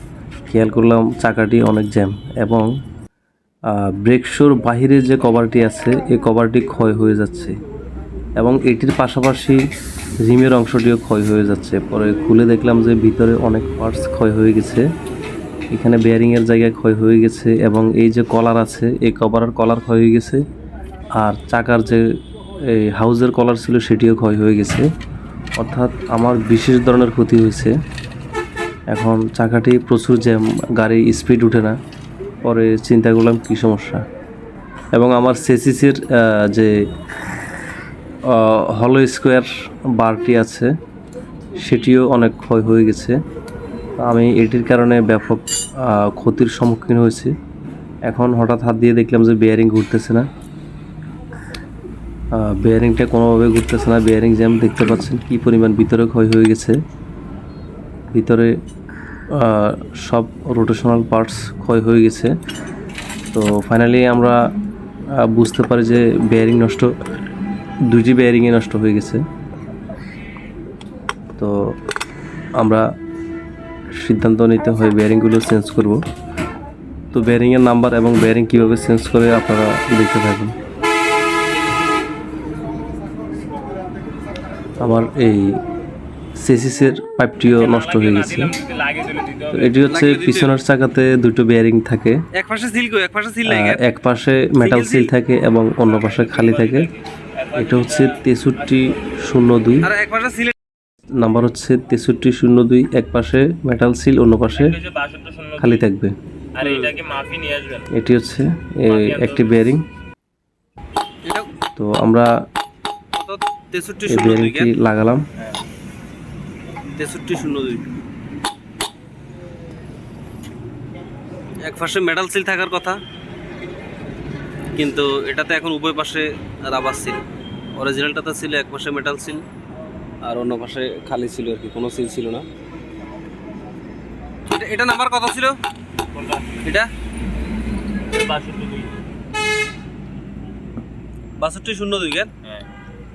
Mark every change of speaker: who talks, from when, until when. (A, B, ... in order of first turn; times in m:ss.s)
0:00.5-0:02.7 A
0:03.7-0:07.5 A
0:08.4-0:09.6 A
0:10.2-0:14.8 A
0:15.7-0:20.4 A
0:21.2-0:22.0 A
0:22.7-0:24.8 A
0:25.6-0:27.7 A
0:28.9-0:31.8 A
0:32.4-0:34.0 A
0:35.0-0:36.7 A
0:38.3-0:40.7 A
0:41.6-0:43.2 A
0:44.0-0:47.3 A
0:48.1-0:50.3 A
0:52.3-0:56.7 A
0:58.1-0:58.5 A
0:59.3-1:02.3 A
1:03.3-1:04.4 A
1:05.2-1:06.9 A
1:07.9-1:09.2 A
1:14.0-1:16.0 A
1:17.1-1:20.5 A
1:24.8-1:25.6 A
1:26.4-1:28.5 A
1:27.6-1:29.8 B
1:29.5-1:32.2 A
1:29.9-1:30.5 C
1:32.3-1:33.8 C
1:33.4-1:36.9 A
1:34.6-1:35.1 C
1:35.9-1:38.2 B
1:37.6-1:39.9 A
1:39.8-1:40.5 C
1:41.2-1:44.8 A
1:44.6-1:45.8 B
1:45.6-1:46.2 A
1:46.5-1:47.9 B
1:46.6-1:47.0 C
1:47.9-1:49.8 A
1:48.8-1:49.6 B
1:51.8-1:52.3 A
1:53.2-1:54.7 C
1:54.1-1:55.2 A
1:57.0-1:57.9 C
2:01.6-2:03.0 C
2:04.8-2:07.2 C
2:07.8-2:09.4 C
2:10.2-2:12.5 C
2:14.5-2:15.6 C
2:16.1-2:16.6 B
2:16.6-2:16.9 C
2:18.1-2:18.9 B
2:21.4-2:22.3 C